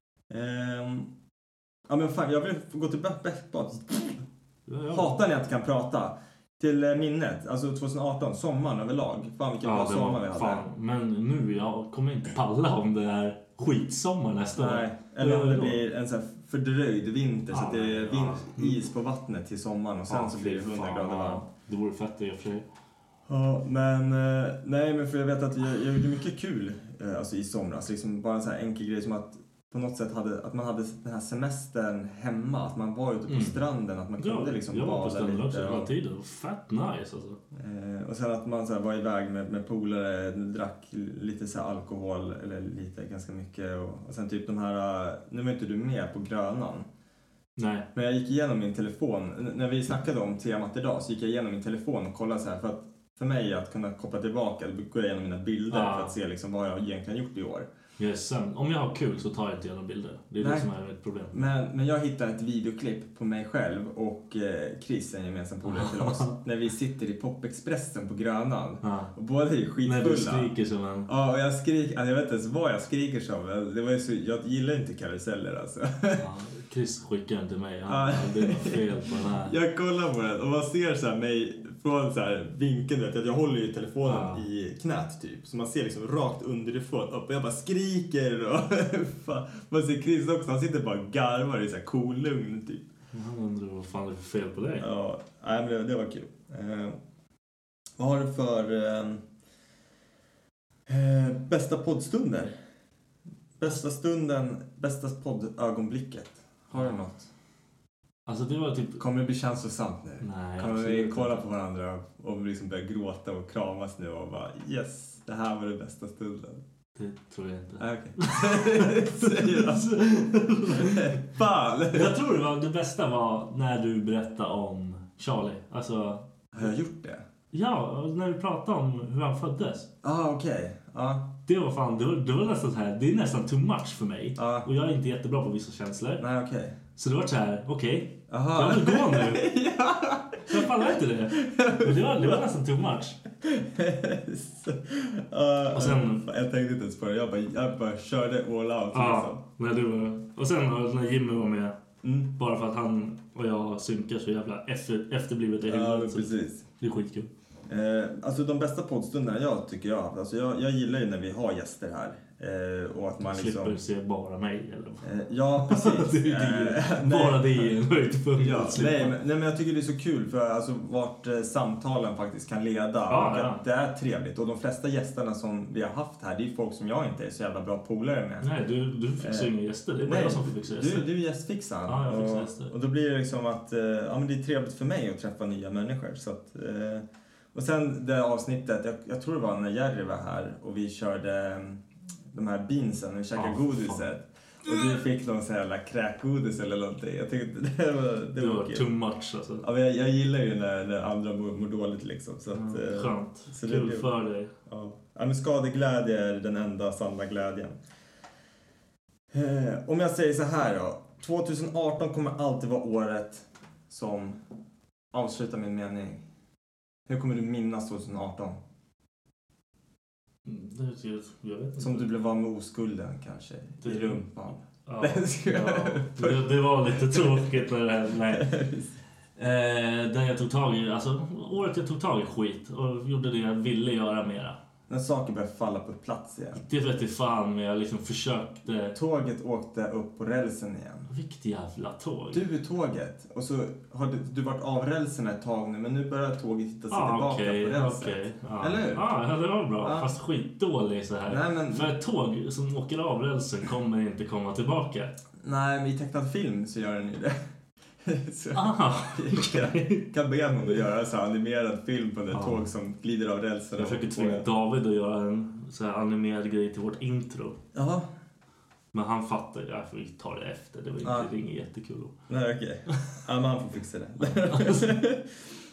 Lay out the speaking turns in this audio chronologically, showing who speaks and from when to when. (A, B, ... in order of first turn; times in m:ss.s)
0:00.3-0:01.1 A
0:01.9-0:04.2 A
0:04.7-0:05.2 B
0:04.9-0:10.7 A
0:09.6-0:15.8 B
0:14.6-0:21.5 A
0:17.5-0:18.8 B
0:20.1-0:22.7 B
0:23.3-0:35.9 A
0:33.3-0:33.6 B
0:34.2-0:37.4 B
0:37.5-0:46.9 A
0:47.6-0:47.9 B
0:47.9-0:57.7 A
0:55.7-0:56.2 B
0:58.0-1:01.4 B
1:00.4-1:00.7 A
1:01.3-1:10.5 A
1:05.6-1:06.4 B
1:08.8-1:09.1 B
1:09.8-1:11.1 B
1:11.1-1:16.2 A
1:16.2-1:19.6 B
1:17.9-1:32.8 A
1:24.0-1:24.5 B
1:33.1-1:34.9 B
1:34.8-1:37.0 A
1:38.0-1:39.2 A
1:40.9-1:42.6 A
1:43.6-1:47.3 A
1:46.7-1:47.0 B
1:48.3-1:49.0 B
1:49.0-1:56.6 A
1:50.2-1:51.4 B
1:57.0-2:01.2 B
1:57.8-2:00.0 A
2:00.7-2:02.2 A
2:01.9-2:06.3 B
2:06.5-2:07.2 A
2:07.5-2:09.9 B
2:10.0-2:11.4 A
2:11.5-2:16.2 B
2:14.4-2:14.7 A
2:16.2-2:16.8 A
2:17.0-2:19.5 B
2:18.3-2:22.4 A
2:20.5-2:23.2 B
2:23.4-2:29.4 A
2:25.7-2:26.3 B
2:28.9-2:31.8 B
2:32.0-2:32.3 A
2:32.3-2:37.3 B
2:35.6-2:36.6 A
2:37.7-2:43.8 A
2:43.2-2:45.1 B
2:45.0-2:47.8 A
2:45.6-2:49.2 B
2:48.4-2:58.5 A
2:53.1-2:53.6 B
2:58.4-3:01.1 B
2:59.2-2:59.5 A
3:00.0-3:18.9 A
3:01.9-3:02.7 B
3:13.4-3:14.1 B
3:18.4-3:19.6 B
3:19.6-3:24.1 A
3:22.5-3:24.5 B
3:24.7-3:27.8 A
3:29.3-3:34.4 A
3:35.1-3:36.2 A
3:37.1-3:38.6 A
3:40.5-3:42.1 B
3:41.8-3:47.5 A
3:43.8-3:44.2 B
3:44.9-3:48.5 B
3:48.3-3:48.9 A
3:49.4-3:54.6 B
3:54.9-3:56.6 A
3:56.6-3:59.0 B
3:58.9-4:01.1 A
4:01.1-4:02.4 B
4:02.3-4:09.1 A
4:06.9-4:15.2 B
4:09.8-4:10.1 A
4:11.3-4:11.9 A
4:15.4-4:17.4 A
4:18.0-4:24.5 A
4:18.5-4:20.1 B
4:22.3-4:22.7 B
4:23.8-4:27.6 B
4:27.7-4:28.1 A
4:28.9-4:32.1 B
4:31.0-4:31.3 A
4:32.3-4:35.4 A
4:34.2-4:34.9 B